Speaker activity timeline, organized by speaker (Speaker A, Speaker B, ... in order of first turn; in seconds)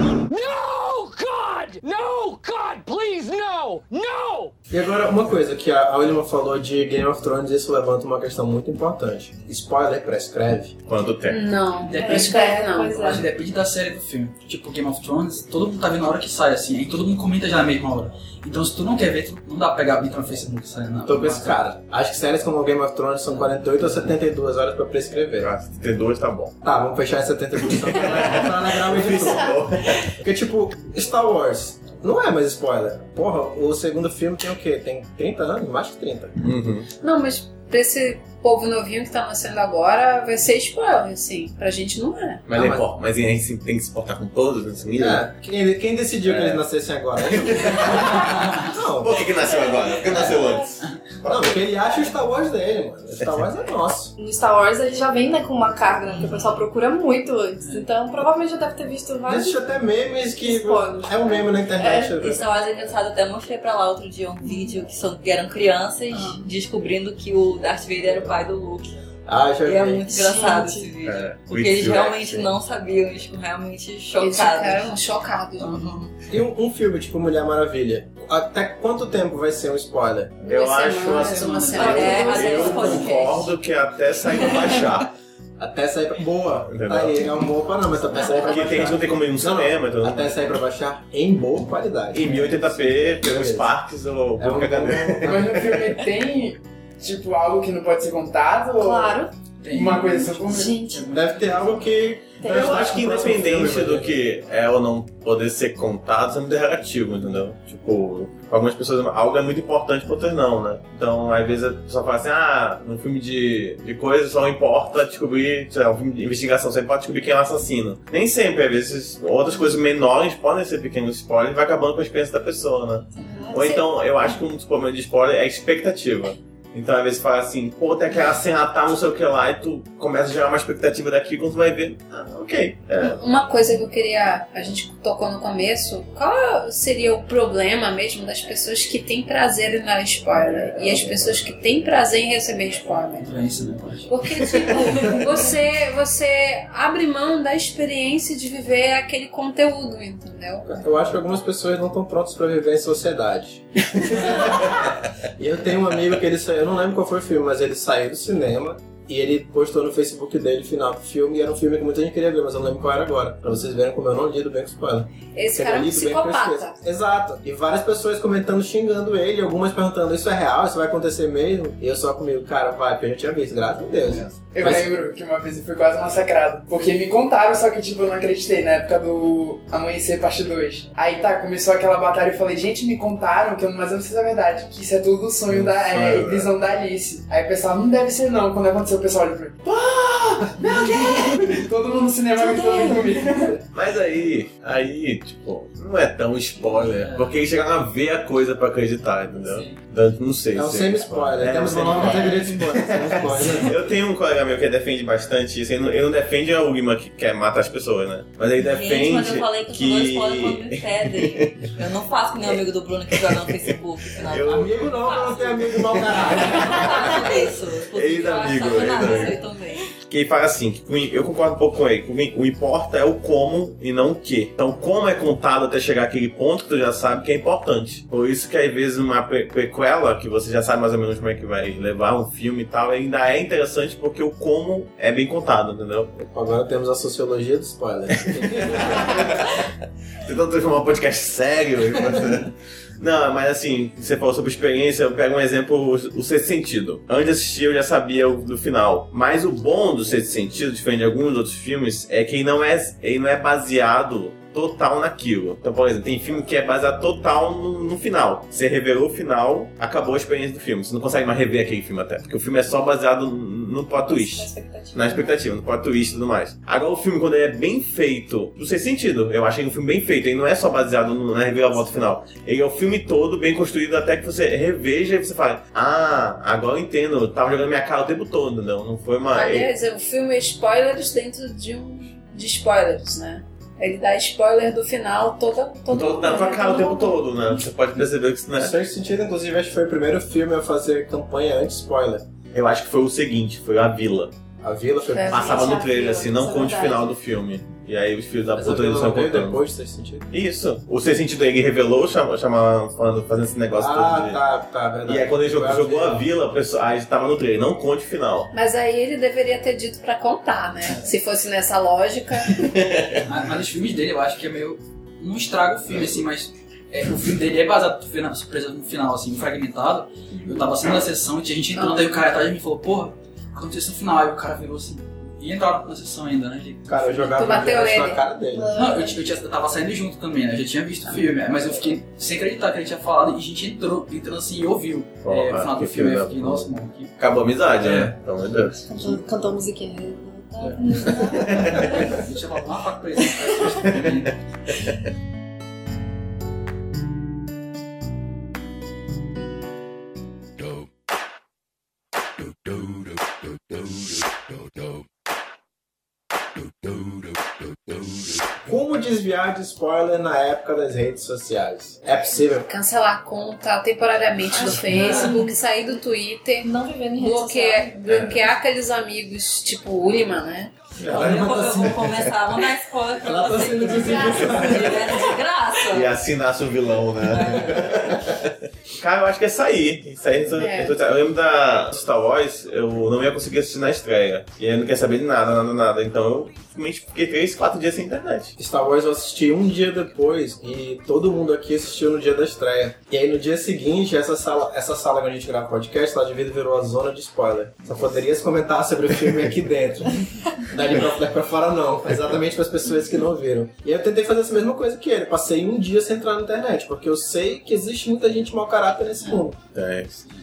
Speaker A: 0.3-4.5
Speaker B: 4.7-10.7, 21.1-25.5, 26.6-36.4, 42.5-42.9, 45.0-49.3, 51.2-54.1, 59.2-62.5, 69.3-70.0, 76.3-80.4, 85.6-93.7, 94.4-96.0, 101.1-104.2, 150.7-174.8, 200.5-203.8, 214.4-217.2, 236.1-239.5, 288.5-292.3, 294.6-295.7, 298.5-300.3, 303.7-306.3, 326.9-328.7, 358.7-362.7, 371.0-372.3, 373.2-375.4, 388.6-409.6
Speaker C: 10.9-11.4, 25.4-26.6, 27.7-30.1, 36.4-36.9, 42.5-45.2, 46.2-46.6, 47.2-51.6, 71.0-72.5, 80.4-85.1, 86.7-87.3, 88.2-90.6, 92.1-95.4, 102.4-133.2, 144.6-144.9, 185.5-186.5, 189.6-190.6, 193.7-211.6, 214.2-214.8, 215.9-216.2, 217.9-219.4, 220.1-236.1, 238.3-239.7, 240.2-279.7, 285.9-288.8, 292.5-294.3, 295.3-299.6, 300.3-304.4, 305.1-308.5, 312.5-313.2, 335.2-338.8, 341.5-341.9, 368.1-368.4, 371.0-371.5, 375.9-388.5, 409.7-410.2
Speaker D: 11.3-13.2, 37.0-42.4, 74.2-76.0, 80.4-83.1, 123.5-123.8, 133.0-143.3, 144.1-150.8, 165.3-166.8, 279.3-287.2, 295.1-295.8, 308.5-312.7, 327.4-328.2, 362.7-370.8, 380.5-380.9
Speaker E: 11.8-21.6, 81.1-82.3, 99.6-101.9, 143.2-144.1, 144.9-145.3, 196.6-197.4, 199.4-199.8, 313.2-327.6, 328.7-337.1, 337.8-338.2, 340.6-344.3, 364.9-365.3
Speaker F: 11.9-13.2, 49.6-50.6, 54.2-59.6, 60.4-62.2, 70.1-70.9, 81.8-83.3, 98.8-99.3, 100.4-101.1, 102.4-103.0, 123.2-123.7, 192.4-193.5, 264.0-265.4, 286.3-286.8, 295.3-297.1, 320.3-320.7, 321.8-322.1, 328.5-329.2, 338.8-342.3, 343.2-343.9, 364.6-365.5, 366.6-368.1
Speaker G: 62.2-68.9, 69.6-74.9, 81.8-83.6, 208.6-215.3, 216.3-219.8, 371.1-376.1, 377.2-378.0
Speaker H: 95.3-100.7, 174.5-189.6, 190.6-193.6
Speaker I: 350.6-350.9, 352.4-355.0, 356.6-358.6